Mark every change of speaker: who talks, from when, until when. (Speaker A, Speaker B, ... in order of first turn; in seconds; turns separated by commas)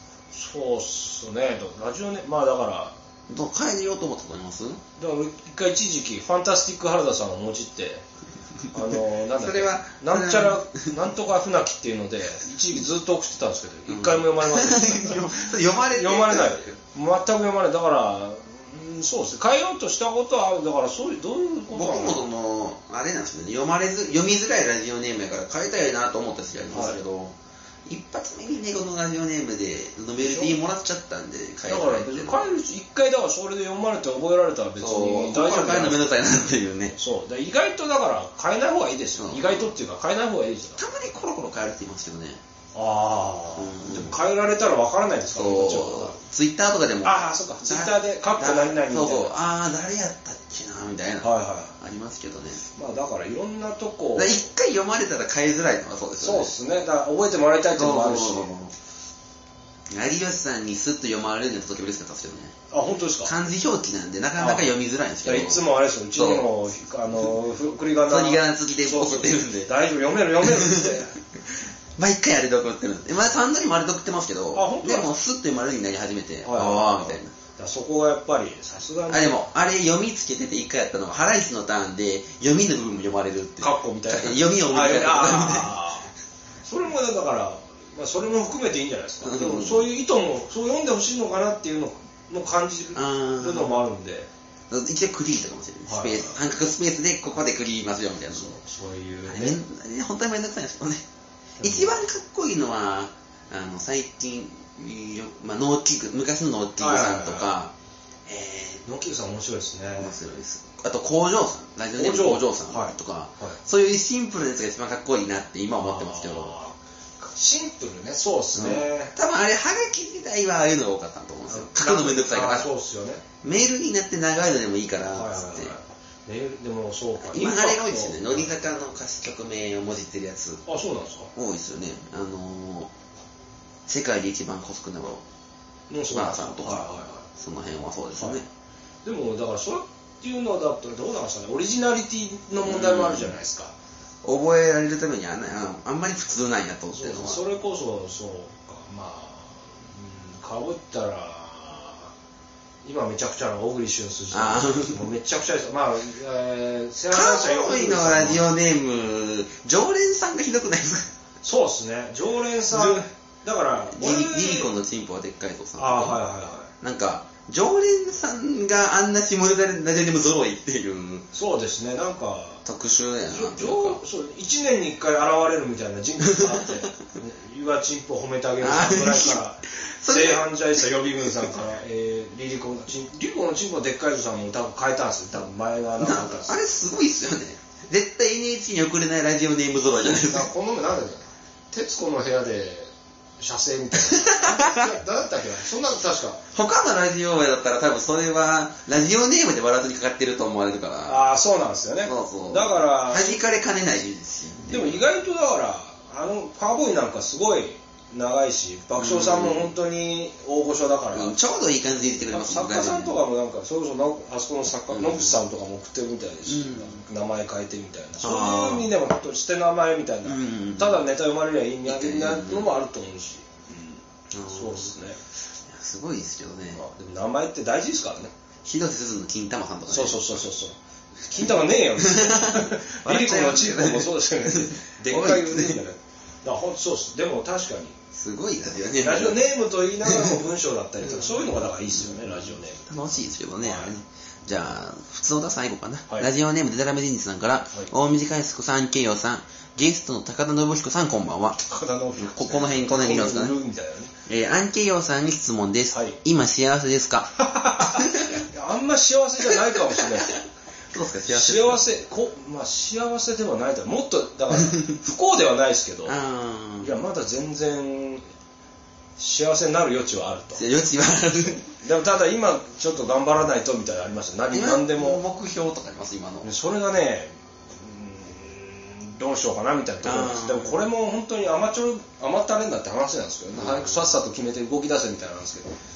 Speaker A: 0.3-3.0, Speaker B: 3.3-4.8, Speaker A: 5.0-8.0, Speaker A: 8.7-22.2, Speaker B: 9.4-10.9, Speaker B: 13.9-16.8, Speaker B: 21.7-27.3, Speaker A: 26.7-27.0, Speaker B: 27.9-32.5, Speaker A: 30.2-30.5, Speaker A: 31.7-36.0, Speaker B: 34.8-37.0, Speaker A: 37.0-40.8, Speaker B: 39.2-39.7, Speaker B: 40.8-42.4, Speaker A: 42.7-46.1, Speaker B: 43.6-44.2, Speaker B: 45.3-52.6, Speaker A: 47.0-49.3, Speaker A: 51.2-51.7, Speaker A: 52.8-54.4, Speaker B: 54.1-56.5, Speaker A: 56.2-58.5, Speaker B: 57.8-58.7, Speaker B: 59.9-62.5, Speaker A: 62.7-63.3, Speaker B: 63.2-65.6, Speaker A: 64.4-64.7, Speaker A: 65.2-71.1, Speaker B: 66.1-66.5, Speaker B: 68.1-69.7, Speaker B: 70.5-71.0, Speaker B: 72.0-77.3, Speaker A: 74.5-75.1, Speaker A: 76.4-79.4, Speaker B: 79.1-85.7, Speaker A: 83.6-86.1, Speaker A: 86.6-94.3, Speaker B: 89.2-89.8, Speaker B: 92.9-93.8, Speaker B: 94.7-98.5, Speaker A: 95.8-96.3, Speaker A: 98.3-99.6, Speaker B: 99.3-101.0, Speaker B: 101.6-107.7, Speaker A: 101.6-101.9, Speaker A: 106.8-107.5, Speaker A: 108.3-110.1, Speaker B: 108.5-108.8, Speaker B: 110.0-116.5, Speaker A: 112.0-113.6, Speaker A: 115.8-119.1, Speaker B: 118.5-122.7, Speaker A: 121.5-123.2, Speaker B: 123.4-125.7, Speaker A: 125.1-128.6, Speaker B: 127.2-130.6, Speaker A: 130.7-131.3, Speaker B: 131.3-132.9, Speaker B: 133.9-135.2, Speaker A: 135.9-137.2, Speaker B: 136.1-138.5, Speaker A: 138.2-138.4, Speaker A: 139.0-143.7, Speaker B: 142.6-143.3, Speaker B: 144.2-147.4, Speaker A: 146.9-152.1, Speaker A: 152.8-158.5, Speaker B: 154.3-155.1, Speaker B: 157.1-161.1, Speaker A: 161.4-164.7, Speaker B: 162.7-163.0, Speaker B: 163.9-166.2, Speaker A: 165.8-166.7, Speaker B: 166.8-171.3, Speaker A: 171.3-172.6, Speaker B: 172.6-174.0, Speaker A: 173.3-186.6, Speaker B: 178.6-180.4, Speaker B: 186.0-190.5, Speaker A: 190.1-196.4, Speaker B: 194.0-194.9, Speaker B: 196.5-201.2, Speaker A: 201.1-203.4, Speaker B: 202.0-205.0, Speaker A: 204.7-211.3, Speaker B: 209.0-209.7, Speaker B: 211.1-213.2, Speaker A: 212.3-225.2, Speaker B: 214.9-215.4, Speaker B: 216.5-217.0, Speaker B: 218.2-218.9, Speaker B: 220.2-221.0, Speaker B: 221.8-222.7, Speaker B: 224.3-224.9, Speaker B: 225.7-226.8, Speaker A: 226.7-228.3, Speaker B: 228.6-230.4, Speaker A: 229.9-237.9, Speaker B: 232.0-235.8, Speaker B: 238.1-239.4, Speaker A: 239.0-243.0, Speaker B: 240.0-240.3, Speaker B: 241.0-251.6, Speaker A: 243.6-243.9, Speaker A: 251.6-254.1, Speaker B: 252.2-253.5, Speaker B: 254.3-258.4, Speaker A: 257.4-260.3, Speaker B: 260.9-261.8, Speaker A: 261.3-266.1, Speaker B: 266.1-266.9, Speaker A: 266.8-268.2, Speaker A: 269.2-270.6, Speaker B: 270.6-271.6, Speaker A: 271.6-275.2, Speaker B: 274.5-276.5, Speaker A: 276.4-285.7, Speaker B: 280.0-280.8, Speaker B: 283.5-284.1